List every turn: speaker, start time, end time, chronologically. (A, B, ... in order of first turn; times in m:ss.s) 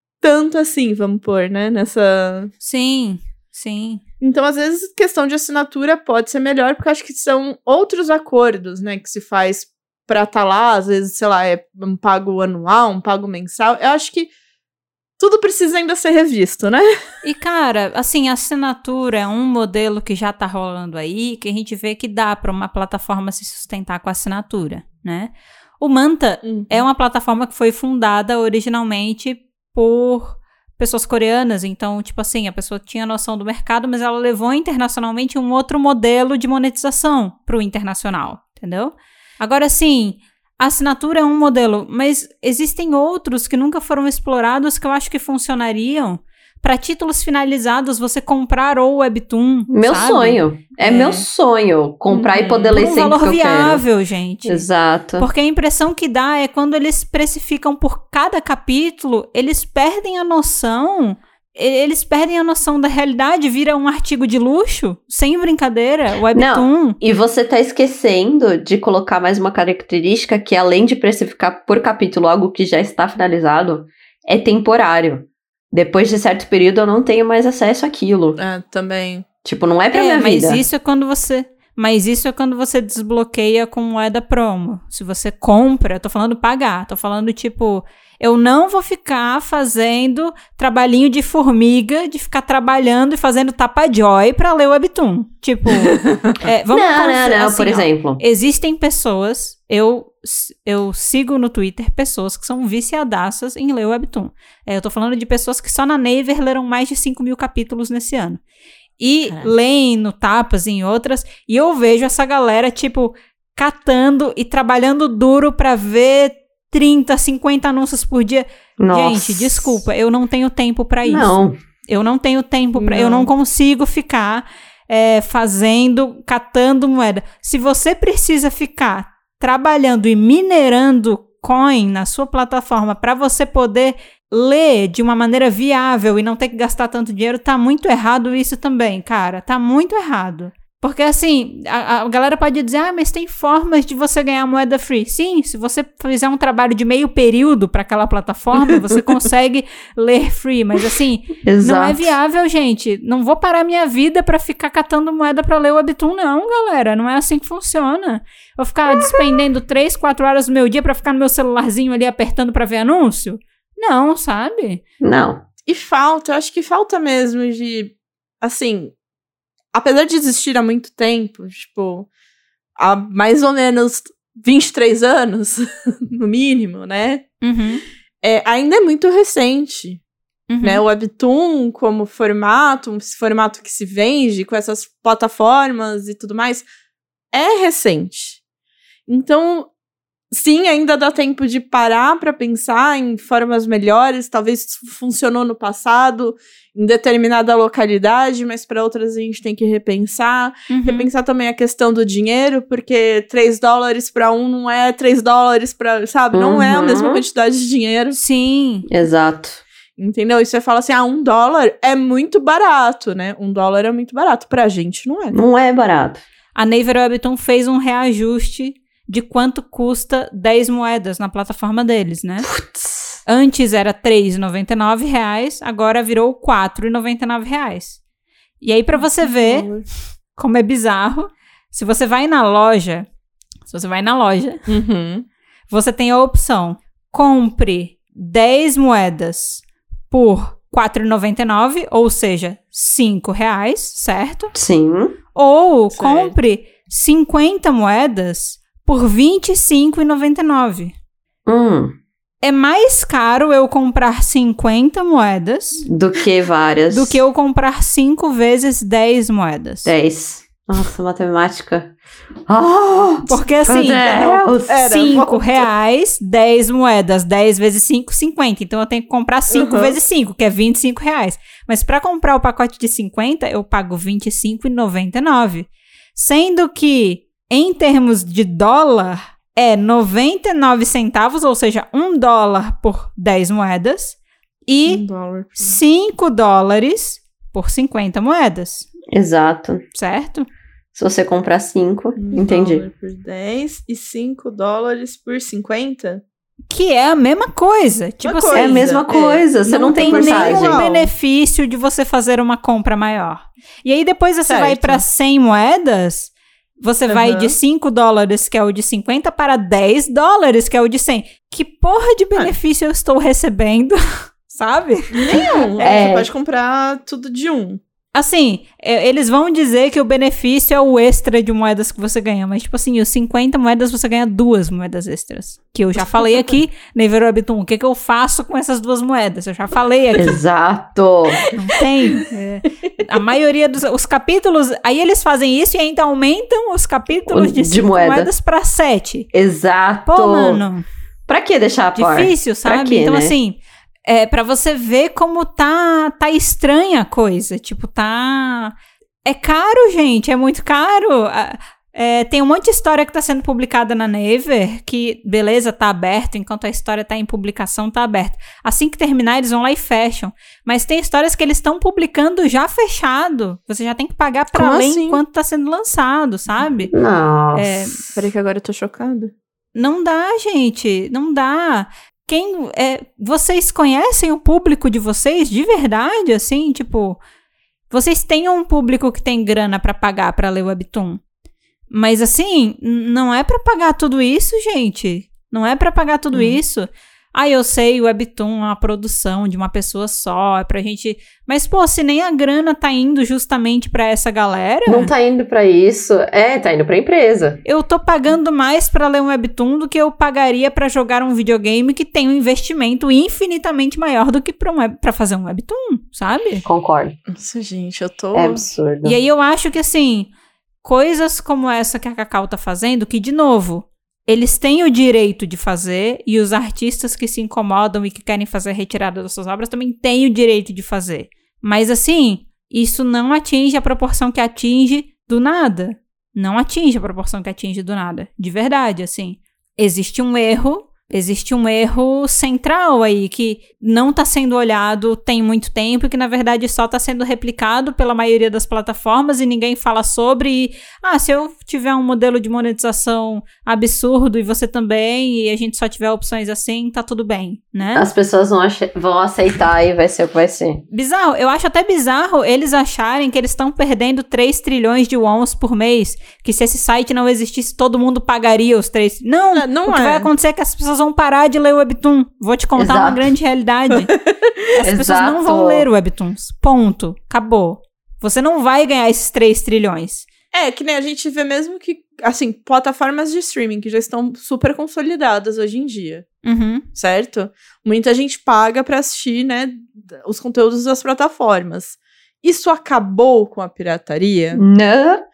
0:00.2-0:02.5 A
0:02.6-0:04.0 B
0:04.2-0:14.3 A
0:15.2-0:16.9 A
0:17.2-0:51.2 B
0:26.4-0:26.8 A
0:49.7-0:53.8 C
0:52.1-0:52.8 A
0:52.6-0:54.6 B
0:54.5-0:55.3 C
0:55.2-1:07.0 B
1:06.3-1:18.4 C
1:18.4-1:19.3 A
1:19.4-1:20.6 C
1:19.9-1:48.4 B
1:36.7-1:38.2 C
1:49.0-2:44.8 B
1:58.8-1:59.8 C
2:01.1-2:01.6 C
2:02.8-2:03.3 A
2:31.4-2:32.1 C
2:45.0-2:45.4 C
2:45.7-2:48.9 A
2:49.7-2:52.1 A
2:52.8-2:57.2 A
2:57.4-2:57.8 B
2:58.2-3:00.0 A
3:00.5-3:00.8 B
3:00.6-3:06.7 A
3:07.3-3:08.4 A
3:09.1-3:09.7 A
3:10.3-3:28.2 A
3:20.7-3:21.1 B
3:26.3-3:27.2 C
3:28.1-3:28.9 B
3:28.9-3:29.6 C
3:30.0-3:35.4 A
3:35.3-3:36.2 C
3:36.6-3:42.5 B
3:42.4-3:43.2 C
3:43.2-3:48.0 B
3:48.6-3:49.7 B
3:49.0-3:49.8 A
3:50.4-3:53.1 B
3:53.7-3:54.6 B
3:54.7-3:55.3 A
3:55.7-4:04.6 B
4:04.5-4:05.2 C
4:05.4-4:10.9 B
4:05.9-4:06.4 A
4:11.5-4:12.0 C
4:12.4-4:15.9 B
4:15.9-4:17.2 C
4:16.9-4:19.9 B
4:19.8-4:22.0 C
4:22.5-4:25.1 C
4:23.2-4:45.0 B
4:24.1-4:25.7 A
4:29.5-4:30.0 A
4:44.9-4:45.8 A
4:45.6-4:48.9 B
4:49.1-4:49.8 C
4:50.0-4:50.5 B
4:51.0-4:52.8 C
4:52.2-4:56.2 A
4:56.7-4:59.0 B
4:58.2-5:00.9 A
4:58.5-5:01.1 C
4:59.8-5:16.0 B
5:04.5-5:05.0 A
5:07.1-5:07.6 A
5:15.1-5:17.8 A
5:15.3-5:16.3 C
5:18.2-5:30.4 B
5:30.2-5:31.4 C
5:31.5-5:39.3 B
5:37.3-5:38.3 C
5:39.3-5:40.6 C
5:40.1-5:40.8 B
5:41.3-5:43.4 C
5:42.0-5:48.7 B
5:49.2-6:06.9 B
6:04.5-6:05.2 A
6:06.9-6:08.1 C
6:07.5-6:08.0 B
6:08.2-6:09.3 A
6:09.8-6:17.2 B
6:17.9-6:21.2 B
6:21.9-6:35.1 B
6:34.9-6:37.6 C
6:37.6-6:46.6 B
6:46.6-6:47.2 C
6:47.3-6:48.6 A
6:48.3-6:49.2 C
6:49.0-6:50.3 B
6:50.8-7:28.1 B
7:28.0-7:30.8 C
7:30.9-7:44.1 B
7:39.5-7:40.3 A
7:42.8-7:43.3 C
7:44.1-7:44.5 A
7:44.8-7:50.3 B
7:44.8-7:45.9 C
7:50.5-7:56.2 A
7:56.4-7:56.8 B
7:57.0-8:04.6 A
8:04.5-8:05.2 C